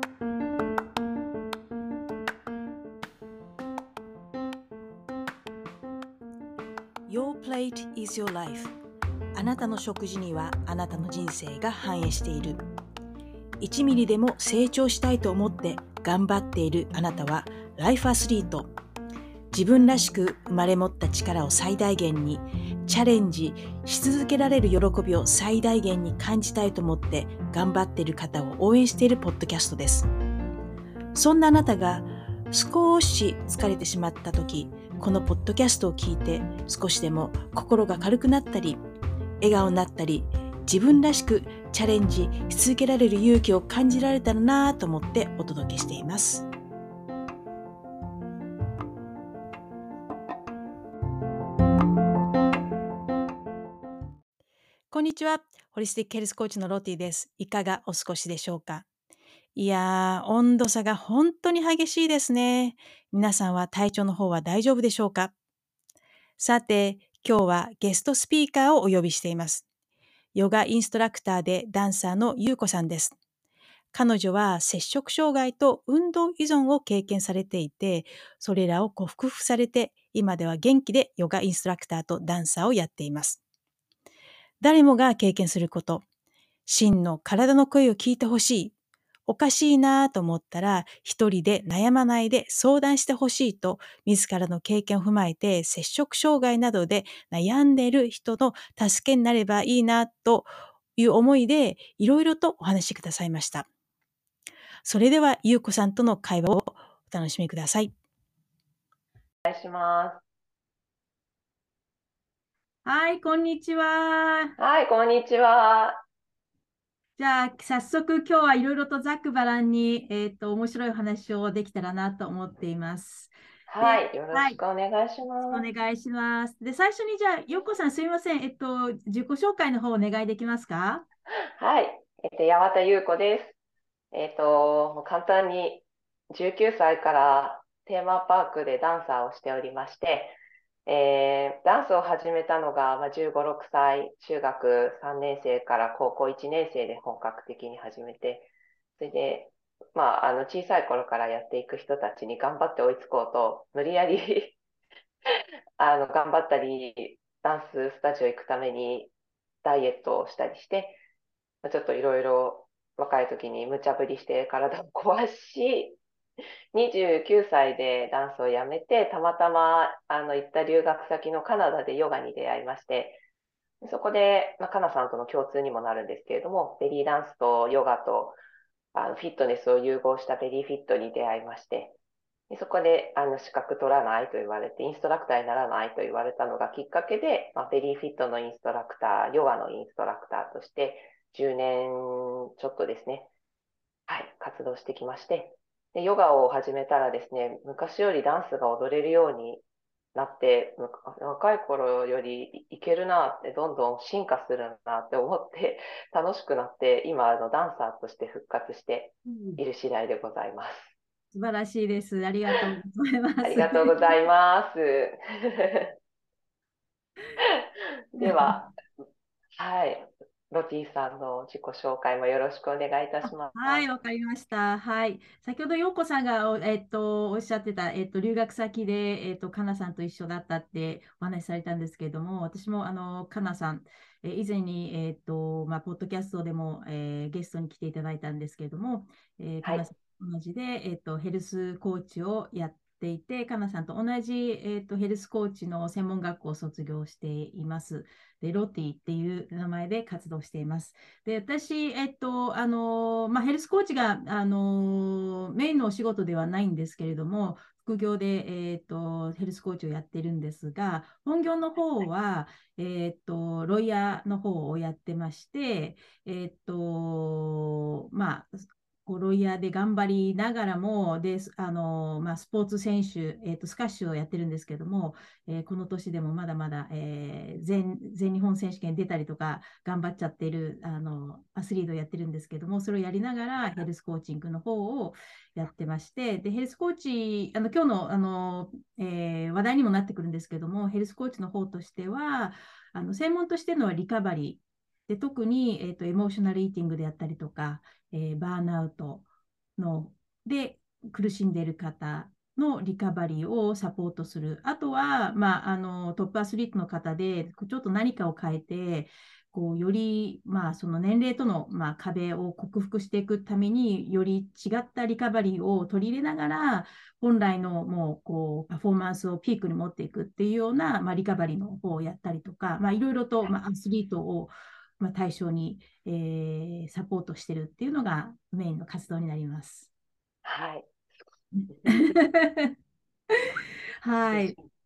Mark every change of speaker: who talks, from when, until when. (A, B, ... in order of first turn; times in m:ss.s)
0:07.1-0:08.8 A
0:09.4-0:12.6 A
0:13.6-0:18.7 A
0:19.5-0:30.1 A
0:31.1-0:38.8 A
0:39.4-0:46.5 A
0:54.9-0:58.9 A
0:59.6-1:05.3 A
1:06.4-1:09.7 A
1:10.4-1:13.2 A
1:13.9-1:23.4 A
1:24.6-1:26.0 A
1:26.7-1:28.7 A
1:29.3-1:43.7 A
1:44.8-1:47.9 A
1:49.5-1:50.2 B
1:52.8-1:54.6 A
1:54.6-1:56.0 B
1:57.2-2:04.6 A
2:03.7-2:05.7 B
2:05.4-2:11.0 A
2:11.6-2:13.6 B
2:14.1-2:34.6 B
2:35.8-2:39.1 B
2:39.6-2:41.0 B
2:41.6-2:46.0 B
2:46.7-2:53.2 B
2:53.8-2:58.4 B
2:58.9-3:02.0 B
3:02.5-3:13.3 B
3:14.1-3:19.6 B
3:20.2-3:31.0 B
3:29.2-3:29.6 A
3:31.3-3:34.1 A
3:33.4-3:35.9 B
3:37.4-3:38.7 B
3:38.2-3:38.6 A
3:39.6-3:43.9 B
3:43.6-4:59.2 A
4:59.8-5:29.9 A
5:30.4-5:30.9 B
5:31.7-5:31.9 B
5:31.8-5:32.7 A
5:34.0-5:34.6 A
5:34.2-5:34.6 B